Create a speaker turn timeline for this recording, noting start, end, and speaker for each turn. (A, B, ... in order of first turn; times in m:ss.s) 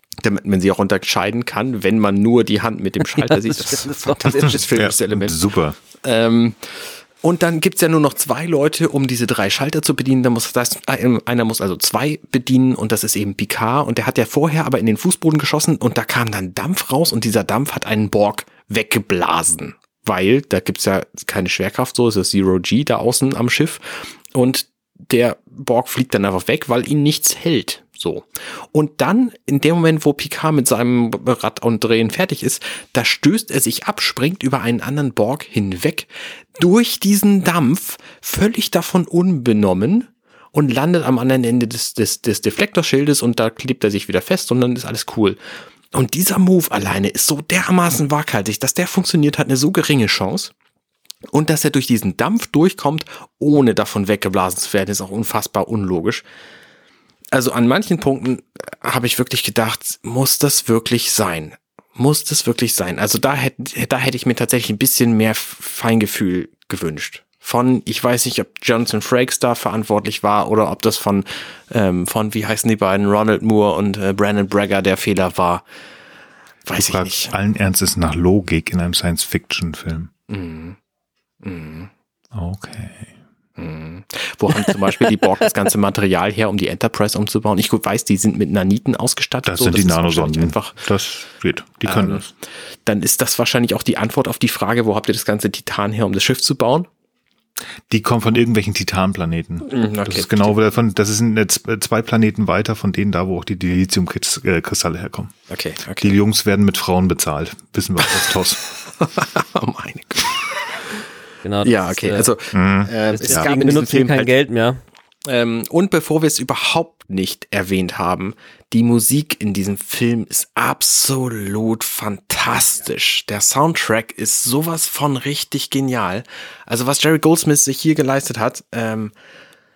0:00.2-0:05.4 A
0:03.2-0:04.5 B
0:04.7-0:05.8 C
0:06.0-0:45.4 A
0:45.9-0:50.5 A
0:51.3-0:56.2 A
0:57.3-1:15.6 A
1:16.7-1:17.3 A
1:16.7-1:20.1 C
1:20.3-1:20.8 A
1:21.4-1:21.9 A
1:22.3-1:23.1 C
1:23.6-1:30.8 A
1:29.4-1:32.3 C
1:31.8-1:32.3 A
1:32.8-1:36.9 A
1:37.9-1:45.3 C
1:39.7-1:40.5 A
1:45.5-1:46.1 A
1:46.0-1:48.6 C
1:49.0-1:50.8 A
1:51.4-1:52.3 B
1:51.6-1:54.3 A
1:52.5-1:53.5 C
1:53.1-1:54.8 B
1:55.2-2:09.1 A